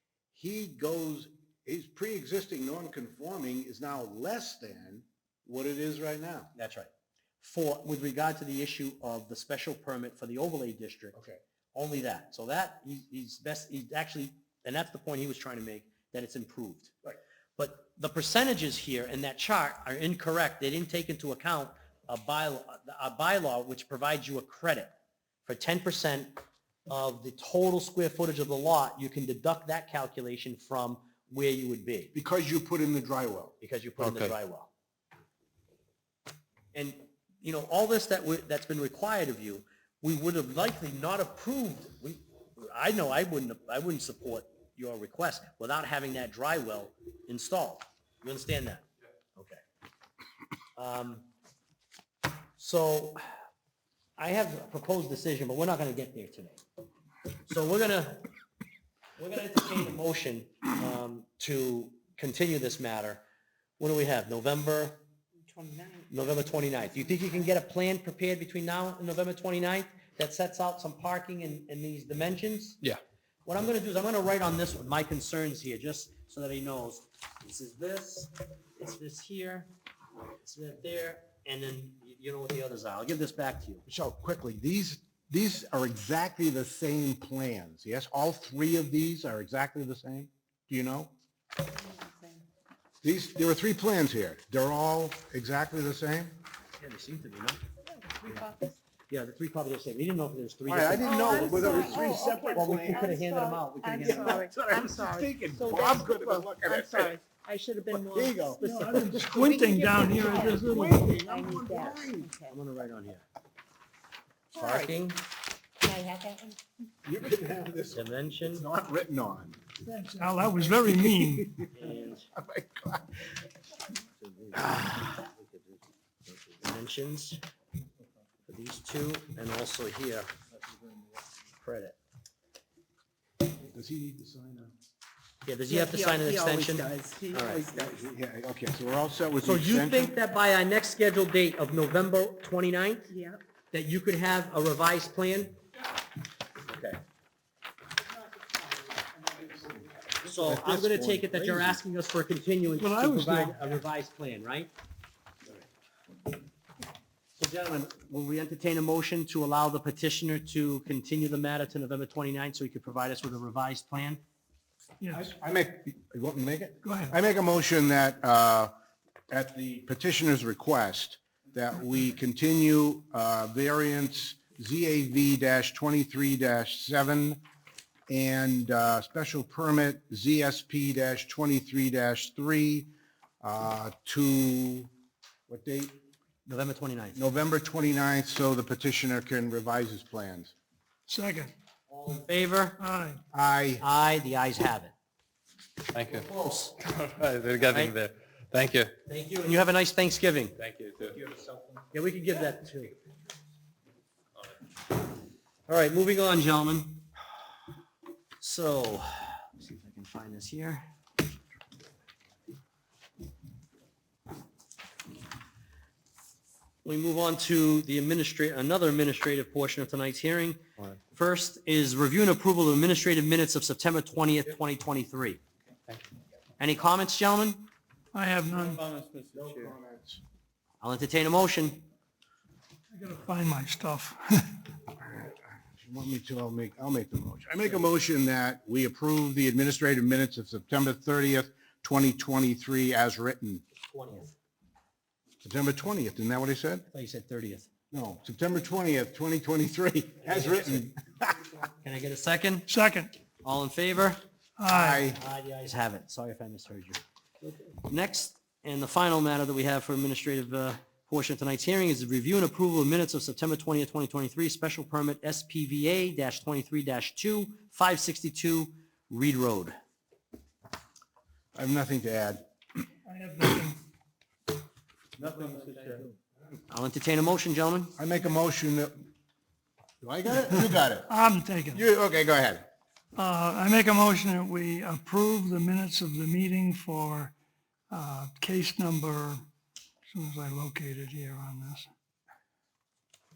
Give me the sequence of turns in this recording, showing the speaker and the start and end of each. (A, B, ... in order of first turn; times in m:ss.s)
0:00.3-0:06.5 A
0:06.5-0:06.9 B
0:07.4-0:11.2 B
0:11.1-0:11.4 A
0:11.7-0:24.9 B
0:25.4-0:32.1 B
0:32.1-0:33.5 A
0:33.6-0:34.7 B
0:34.0-0:34.4 C
0:36.7-0:49.6 B
0:50.8-0:51.3 B
0:52.6-0:53.2 B
0:54.2-0:56.6 B
0:57.5-0:58.3 B
0:59.2-1:03.2 B
1:03.8-1:05.0 B
1:05.5-1:06.1 D
1:06.1-1:12.8 B
1:13.4-1:19.7 B
1:20.4-1:23.8 B
1:23.8-1:31.1 A
1:31.6-1:32.4 D
1:33.0-1:36.4 A
1:36.8-1:37.6 B
1:37.8-1:38.8 D
1:39.1-1:42.0 B
1:40.7-1:43.2 A
1:41.0-1:52.6 D
1:42.5-1:44.5 B
1:43.9-1:47.2 A
1:47.9-1:52.3 A
1:48.6-1:51.0 E
1:52.5-1:53.2 B
1:54.6-1:54.9 D
1:54.6-1:55.2 B
1:55.8-1:56.6 D
1:57.0-1:59.6 A
1:57.9-1:58.6 B
1:59.8-2:01.6 E
2:01.2-2:01.7 A
2:01.7-2:02.3 B
2:02.3-2:03.1 A
2:04.2-2:05.2 B
2:06.3-2:07.4 B
2:08.5-2:10.3 B
2:11.6-2:12.0 B
2:13.6-2:14.7 A
2:15.4-2:17.6 B
2:15.7-2:18.0 D
2:17.3-2:20.1 A
2:19.4-2:23.1 B
2:23.1-2:23.4 D
2:23.7-2:25.6 B
2:30.2-2:34.7 B
2:30.2-2:31.8 A
2:32.8-2:33.6 E
2:37.4-2:44.2 B
2:45.1-2:48.7 A
2:46.8-2:47.1 E
2:49.3-2:57.4 A
2:58.1-3:02.9 A
3:03.4-3:04.9 A
3:05.5-3:06.0 A
3:06.4-3:07.2 B
3:07.1-3:10.5 A
3:11.1-3:11.5 E
3:11.9-3:12.8 B
3:12.8-3:13.2 E
3:13.3-3:13.8 A
3:13.8-3:14.9 B
3:15.9-3:16.3 C
3:16.0-3:16.8 B
3:16.8-3:18.9 C
3:17.6-3:17.9 B
3:19.0-3:20.6 B
3:20.6-3:21.7 C
3:21.9-3:22.9 B
3:25.7-3:27.1 B
3:28.4-3:30.8 B
3:36.8-3:45.4 B
3:46.6-3:47.7 B
3:48.1-3:48.8 E
3:48.5-3:49.7 C
3:49.3-3:50.2 A
3:50.8-3:51.8 B
3:52.9-3:54.6 E
3:55.0-4:03.6 A
4:03.8-4:04.3 B
4:05.4-4:06.8 A
4:06.9-4:07.7 B
4:07.9-4:11.5 A
4:10.2-4:10.8 B
4:11.8-4:12.7 B
4:12.7-4:13.1 E
4:13.4-4:14.2 B
4:14.6-4:15.1 E
4:14.7-4:15.2 A
4:15.1-4:17.0 B
4:17.8-4:29.7 B
4:31.6-4:32.4 A
4:33.0-4:33.8 E
4:35.2-4:36.1 C
4:36.7-4:37.9 B
4:38.0-4:39.1 A
4:40.0-4:41.1 A
4:41.1-4:41.8 E
4:41.7-4:42.6 A
4:43.2-4:47.3 E
4:47.9-4:49.4 E
4:50.1-4:51.9 E